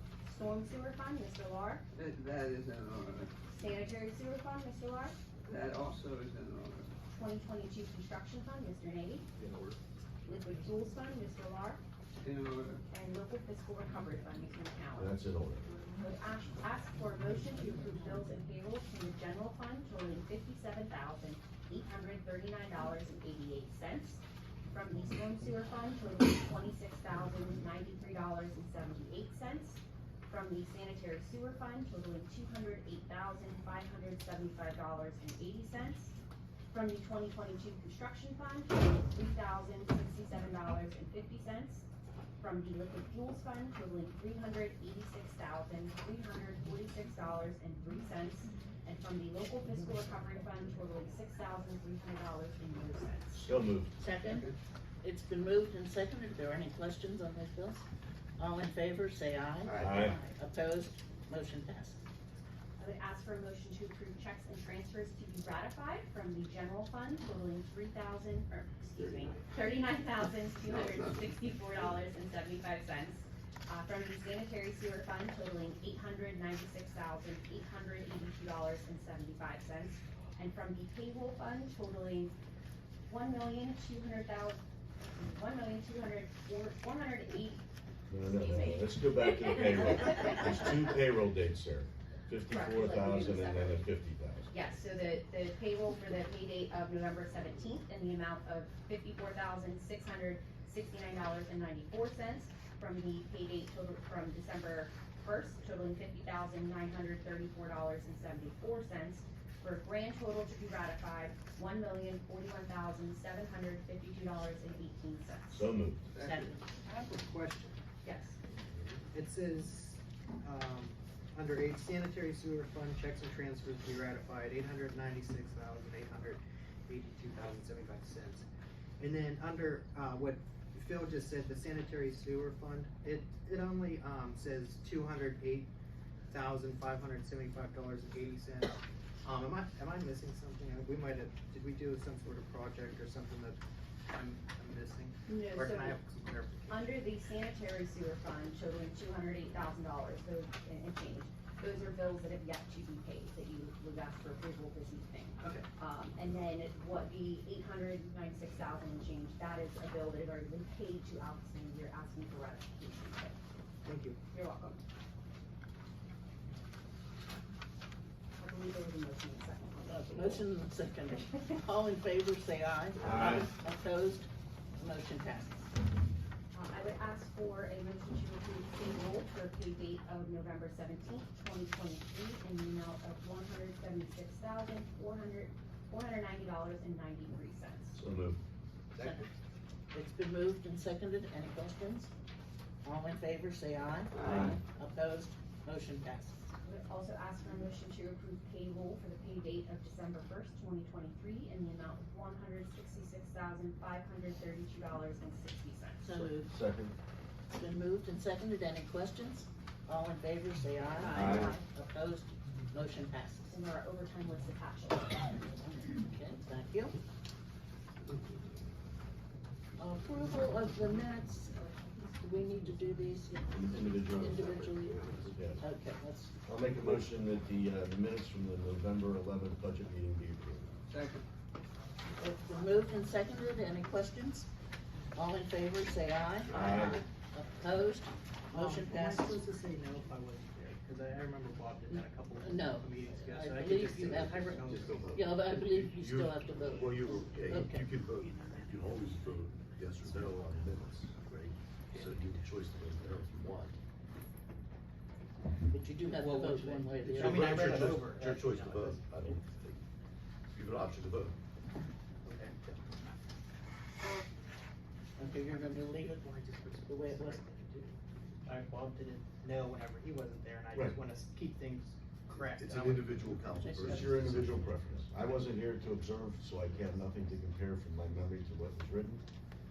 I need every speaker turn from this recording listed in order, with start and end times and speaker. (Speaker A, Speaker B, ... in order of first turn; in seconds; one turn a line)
Speaker A: 0.2-1.8
Speaker B: 1.9-3.3
Speaker A: 3.5-5.2
Speaker B: 5.4-6.9
Speaker A: 7.1-9.3
Speaker A: 10.2-11.8
Speaker B: 12.2-12.8
Speaker A: 12.9-15.1
Speaker C: 14.9-15.7
Speaker A: 15.9-36.1
Speaker A: 36.7-41.9
Speaker A: 42.4-53.5
Speaker C: 53.4-53.9
Speaker D: 54.0-54.5
Speaker B: 54.2-54.5
Speaker D: 55.0-57.9
Speaker D: 58.4-62.0
Speaker E: 59.7-60.1
Speaker C: 59.8-60.1
Speaker A: 62.8-82.3
Speaker E: 69.0-69.3
Speaker A: 83.0-84.6
Speaker A: 85.1-87.6
Speaker C: 88.1-94.5
Speaker A: 88.2-90.7
Speaker A: 92.5-93.9
Speaker A: 94.5-115.7
Speaker C: 115.5-116.1
Speaker B: 116.2-116.5
Speaker D: 116.2-116.6
Speaker F: 116.8-117.8
Speaker A: 118.0-118.4
Speaker F: 119.1-128.4
Speaker F: 129.0-135.7
Speaker F: 136.3-143.6
Speaker F: 144.1-147.0
Speaker A: 145.2-146.0
Speaker A: 146.7-163.3
Speaker F: 155.4-155.7
Speaker F: 163.8-164.2
Speaker A: 164.3-164.8
Speaker A: 168.4-170.4
Speaker D: 169.9-175.7
Speaker C: 173.0-173.5
Speaker A: 176.5-188.0
Speaker C: 187.9-188.4
Speaker F: 188.9-189.3
Speaker D: 189.0-189.3
Speaker D: 189.9-192.1
Speaker D: 192.8-196.4
Speaker A: 196.6-206.3
Speaker D: 206.0-206.5
Speaker C: 206.4-206.9
Speaker D: 207.5-213.6
Speaker A: 211.0-211.6
Speaker C: 211.1-211.5
Speaker A: 213.5-215.2
Speaker D: 215.8-216.9
Speaker D: 219.8-225.1
Speaker C: 223.5-225.6
Speaker D: 225.6-226.3
Speaker C: 226.4-230.7
Speaker B: 230.9-231.2
Speaker D: 232.2-234.5
Speaker D: 235.1-239.4
Speaker E: 236.5-236.9
Speaker C: 236.5-237.0
Speaker F: 238.5-244.9
Speaker D: 241.9-247.9
Speaker E: 244.0-253.8
Speaker D: 255.7-257.9
Speaker F: 256.1-259.0
Speaker E: 257.2-259.8
Speaker E: 260.5-261.4
Speaker F: 262.2-262.8
Speaker D: 265.2-267.8
Speaker F: 265.8-267.9
Speaker F: 268.4-273.3
Speaker E: 272.3-275.1
Speaker D: 273.6-274.0
Speaker C: 273.7-279.2